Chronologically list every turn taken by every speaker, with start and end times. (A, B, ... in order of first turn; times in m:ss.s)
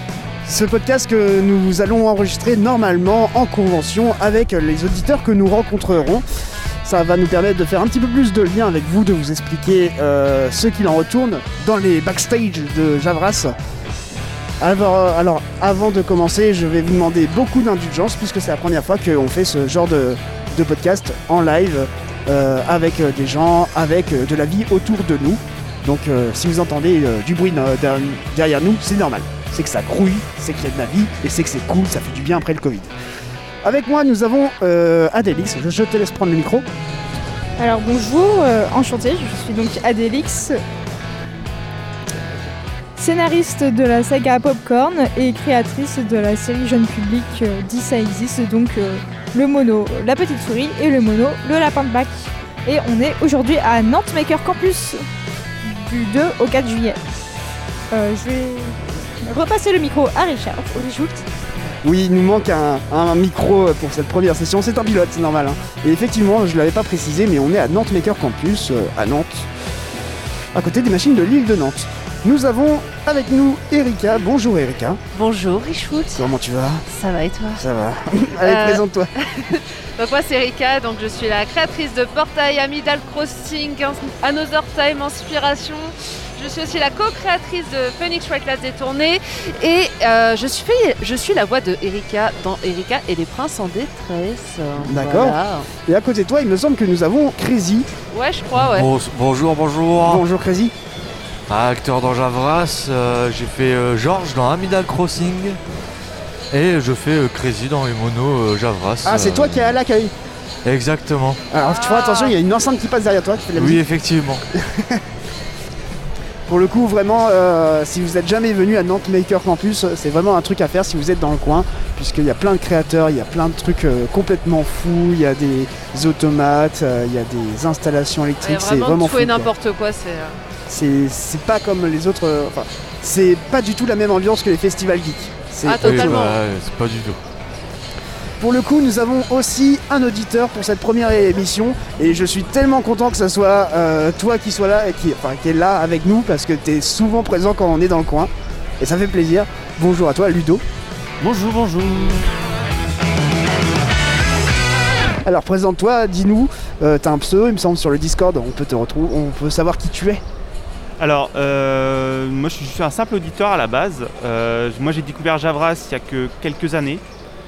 0:00.4-0:06.2 A
0:06.8-0:13.5 A
0:14.6-0:32.9 A
0:33.6-0:36.7 A
0:37.6-0:40.6 B
0:43.0-0:55.0 B
0:55.6-0:57.0 B
0:57.9-1:01.2 B
1:01.8-1:09.5 A
1:10.5-1:15.0 A
1:15.1-1:16.3 C
1:16.2-1:16.8 A
1:16.9-1:17.6 C
1:17.6-1:19.1 A
1:18.4-1:35.7 C
1:34.8-1:37.9 A
1:38.1-1:38.9 C
1:38.6-1:40.2 D
1:40.0-1:40.7 A
1:41.5-1:45.6 D
1:46.5-1:49.8 D
1:49.0-1:50.1 A
1:50.6-1:51.4 D
1:51.5-1:53.8 A
1:51.5-1:52.4 C
1:53.6-1:54.4 D
1:54.6-1:55.0 A
1:56.5-2:09.5 A
2:08.4-2:10.4 C
2:10.7-2:16.2 A
2:15.6-2:16.4 C
2:15.8-2:17.2 D
2:18.4-2:30.6 A
2:31.2-2:32.2 D
2:35.2-2:40.2 A
2:41.0-2:47.0 E